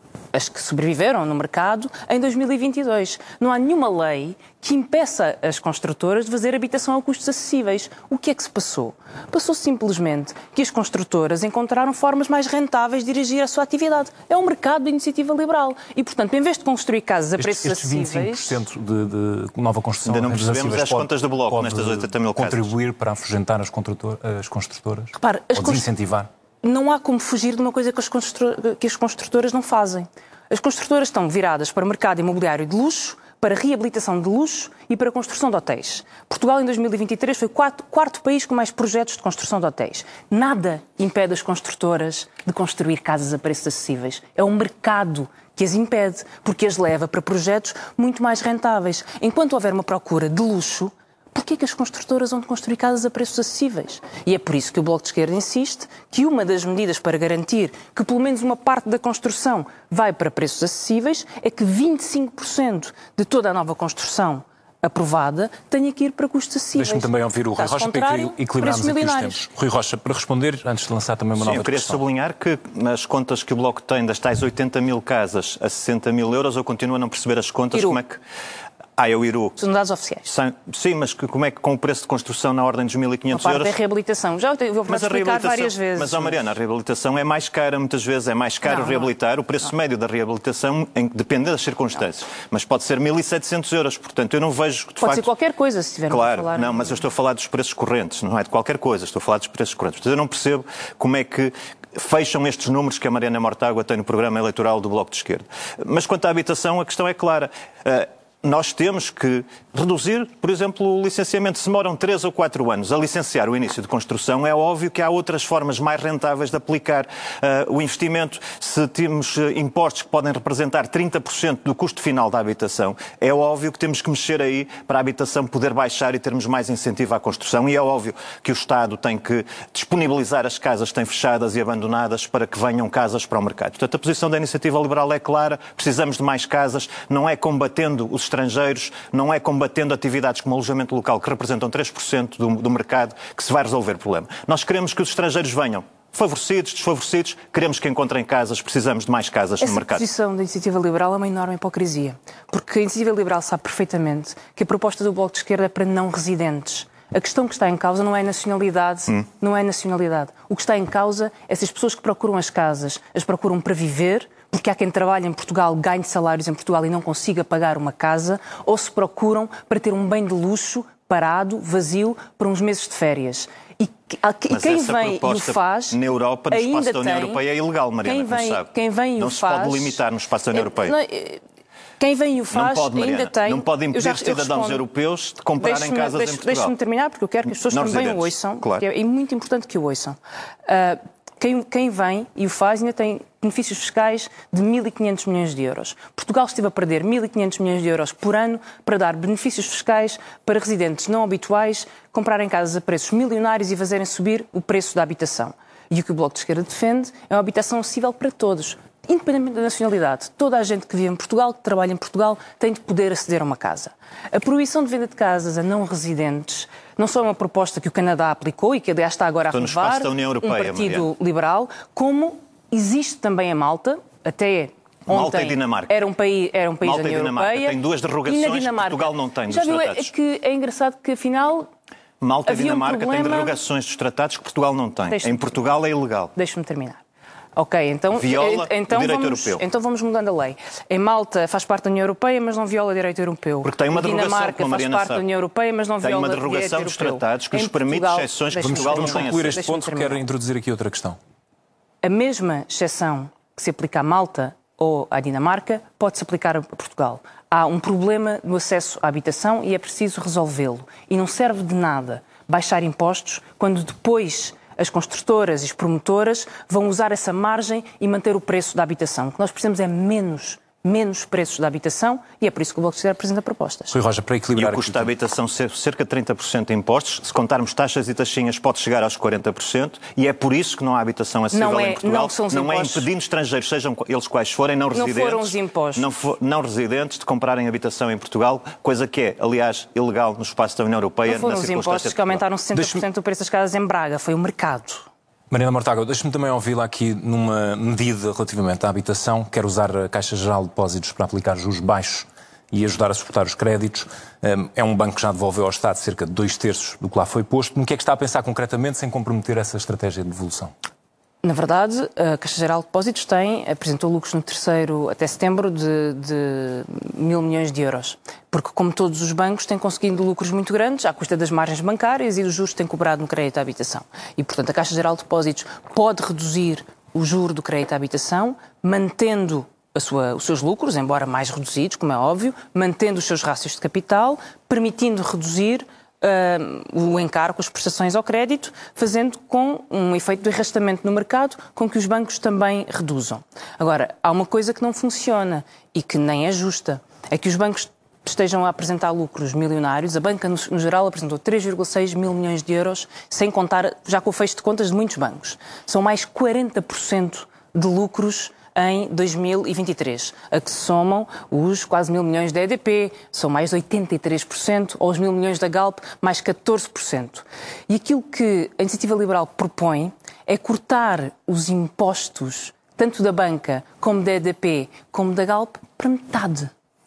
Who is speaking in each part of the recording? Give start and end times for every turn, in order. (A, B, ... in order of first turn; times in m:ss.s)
0:00.3-0:18.5 A
0:17.4-0:26.3 B
0:20.1-0:22.7 C
0:25.2-0:25.9 A
0:26.6-1:09.4 A
1:06.8-1:12.0 B
1:11.4-1:18.2 C
1:17.7-1:18.0 A
1:19.0-1:19.6 C
1:19.6-1:20.3 A
1:20.3-1:23.7 C
1:23.3-1:26.4 A
1:24.9-1:35.3 C
1:28.6-1:29.1 A
1:35.0-1:37.0 A
1:36.1-2:30.1 C
2:29.6-2:56.0 A
2:54.5-3:01.0 C
2:56.5-2:57.4 A
2:58.0-3:00.0 A
3:00.5-3:01.4 A
3:02.0-3:04.8 A
3:02.5-3:06.7 C
3:05.6-3:51.7 A
3:07.7-3:08.8 C
3:39.5-3:41.1 C
3:45.1-3:45.9 C
3:46.8-3:50.1 C
3:52.2-3:56.3 C
3:52.5-3:53.6 A
3:55.1-3:55.4 A
3:56.4-3:57.0 A
3:57.6-4:10.2 A
3:58.2-3:59.6 C
4:03.6-4:05.2 C
4:06.0-4:09.6 C
4:08.6-4:11.2 B
4:12.0-4:34.0 A
4:33.9-4:35.1 B
4:34.6-4:52.4 C
4:41.5-4:43.1 A
4:44.9-4:46.1 A
4:51.2-4:55.1 A
4:52.8-4:53.0 B
4:55.5-5:10.7 B
5:11.4-6:16.7 A